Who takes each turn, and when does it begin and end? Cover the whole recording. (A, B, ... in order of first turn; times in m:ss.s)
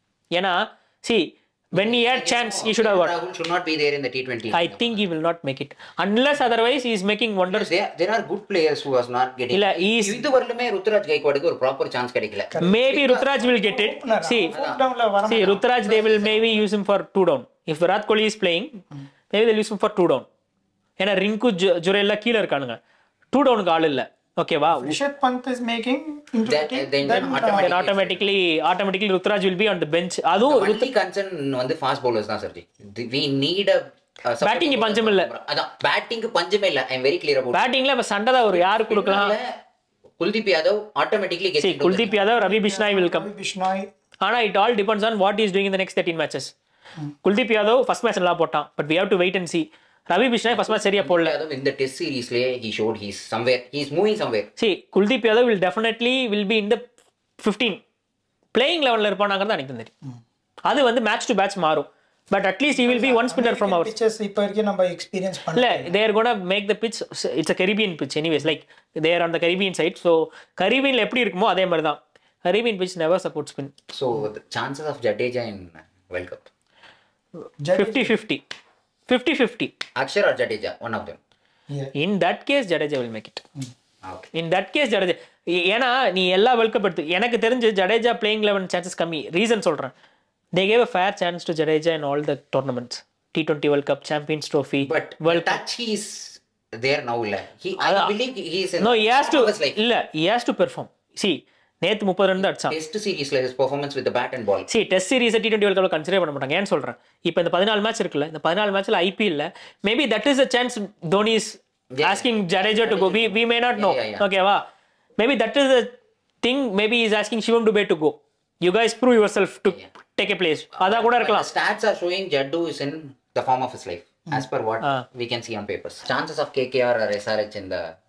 0:00.3-0:03.1 A
0:01.8-0:05.0 B
0:04.5-0:07.7 A
0:07.5-0:13.3 B
0:09.5-0:10.2 A
0:12.5-0:12.8 C
0:12.6-0:14.6 A
0:13.3-0:16.4 C
0:14.5-0:14.8 B
0:15.3-0:20.3 A
0:15.7-0:16.6 B
0:21.0-0:22.8 A
0:23.3-0:25.0 A
0:24.8-0:27.7 C
0:26.4-0:28.2 B
0:27.2-0:30.8 A
0:30.4-0:37.6 B
0:34.4-0:35.3 A
0:37.5-0:39.3 A
0:38.5-0:39.5 B
0:40.2-0:42.2 B
0:41.6-0:43.3 A
0:42.2-0:43.9 C
0:44.2-0:46.5 A
0:47.2-0:51.3 A
0:50.5-0:54.5 B
0:54.6-0:56.8 A
0:57.4-0:57.8 A
0:58.5-0:59.9 A
1:00.7-1:03.9 A
1:02.7-1:05.9 C
1:05.5-1:13.7 A
1:13.9-1:16.5 B
1:17.6-1:18.1 C
1:17.7-1:18.4 A
1:19.1-1:19.7 A
1:20.0-1:21.2 B
1:21.9-1:23.4 A
1:24.0-1:24.3 B
1:24.3-1:29.9 A
1:30.5-1:35.6 A
1:34.8-1:39.8 B
1:37.8-1:38.1 A
1:38.8-1:42.7 A
1:42.4-1:44.7 B
1:44.7-1:54.6 A
1:51.9-1:54.2 B
1:55.2-2:01.5 A
2:00.8-2:07.9 B